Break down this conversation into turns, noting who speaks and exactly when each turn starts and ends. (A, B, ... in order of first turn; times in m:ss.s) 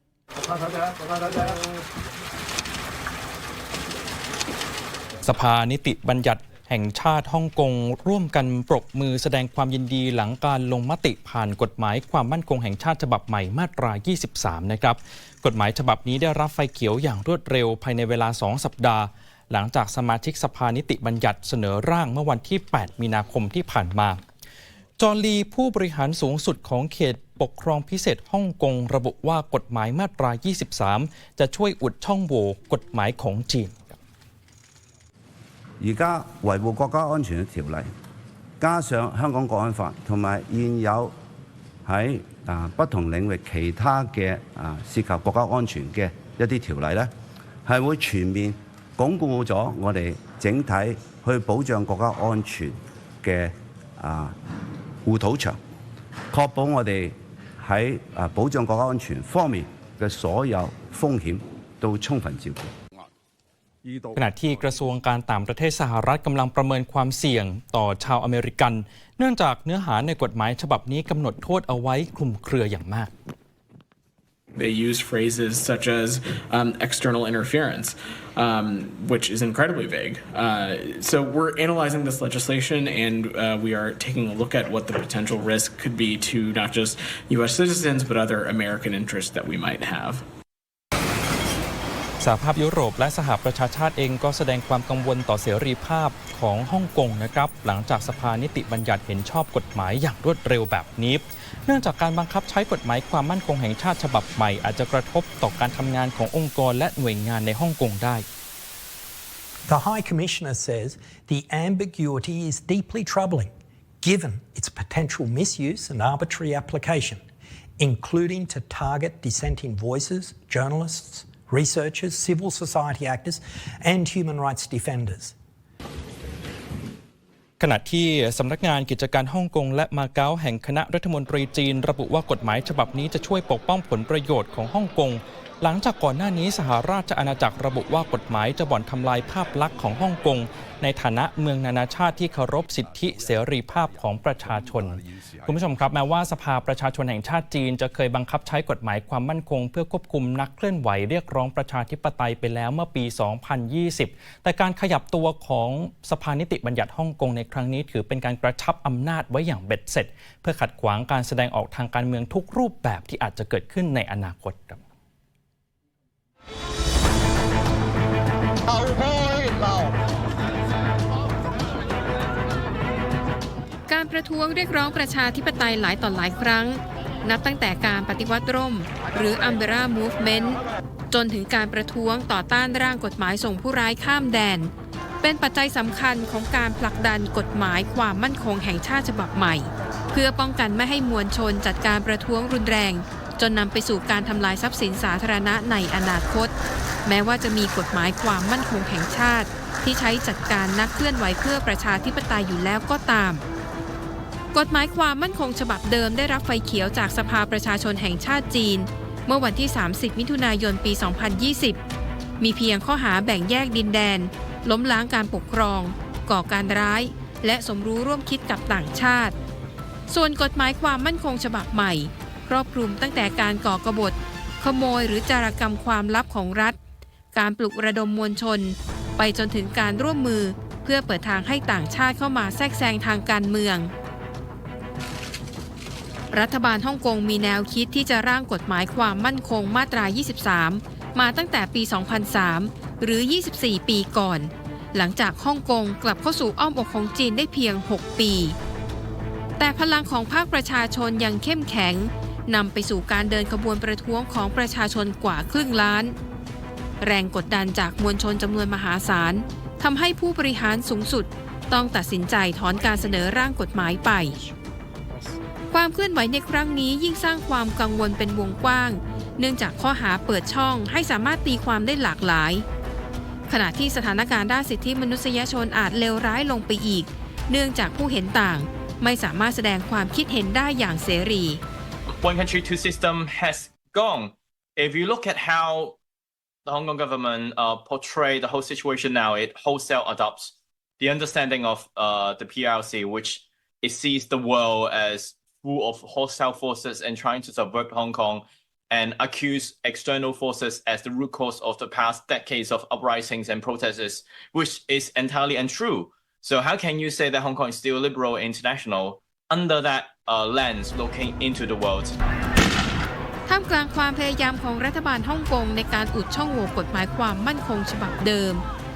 0:00.9-0:01.5 A
0:05.2-0:24.2 B
0:25.0-0:34.0 B
0:35.8-0:37.9 A
0:38.6-0:41.1 A
0:41.8-0:47.1 A
0:47.6-0:54.4 A
0:55.0-0:55.6 A
0:56.3-1:02.7 A
1:04.2-1:13.1 B
1:14.5-1:30.2 C
1:32.2-1:48.2 B
1:49.7-1:53.5 D
1:54.0-1:57.2 D
1:57.8-2:05.3 D
2:07.6-2:44.8 B
2:24.8-2:25.5 A
2:53.9-3:16.5 E
3:17.0-3:23.4 E
3:24.5-3:31.8 E
3:32.4-3:39.3 E
3:40.1-3:46.8 E
3:47.3-3:53.9 E
3:56.3-4:08.6 E
4:09.6-4:16.2 E
4:17.0-4:24.4 E
4:25.7-4:32.6 E
4:33.5-4:41.6 E
4:42.1-4:46.0 F
4:46.6-5:12.1 F
5:13.5-5:18.6 E